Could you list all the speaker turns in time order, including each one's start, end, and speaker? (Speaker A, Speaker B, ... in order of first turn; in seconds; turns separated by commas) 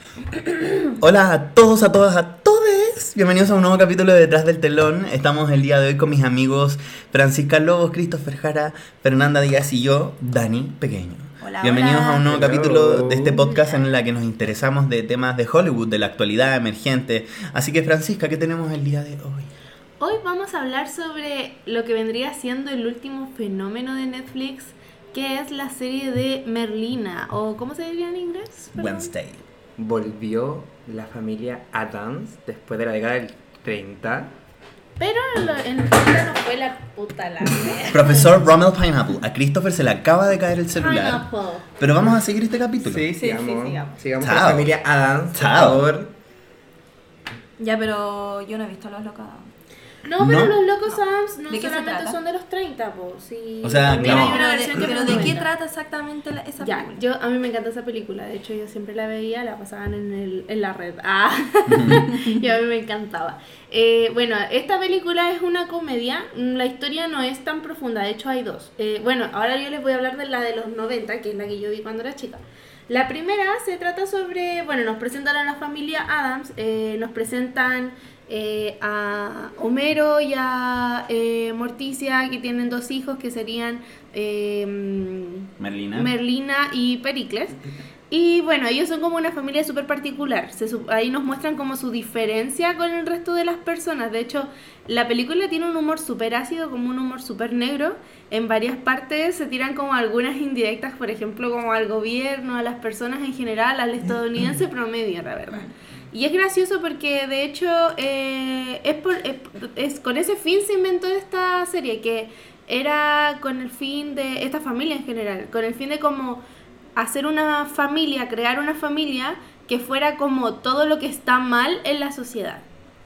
Speaker A: 0.4-0.7, Speaker B: 1.0-19.5, Speaker C: 11.4-12.3, Speaker A: 12.3-13.4, Speaker C: 13.4-13.9, Speaker D: 20.0-29.1, Speaker B: 28.8-29.4, Speaker A: 29.8-34.3, Speaker D: 35.0-38.3, Speaker B: 37.9-43.1, Speaker D: 40.8-41.7, Speaker A: 42.8-46.1, Speaker C: 43.2-43.9, Speaker B: 44.2-44.8, Speaker B: 45.3-45.9, Speaker C: 47.6-49.5, Speaker D: 50.0-55.5, Speaker B: 50.2-50.6, Speaker C: 51.5-52.2, Speaker B: 53.6-54.5, Speaker C: 54.0-57.0, Speaker B: 55.0-55.3, Speaker D: 56.6-116.4, Speaker B: 61.7-62.1, Speaker B: 85.6-86.1, Speaker D: 117.0-122.6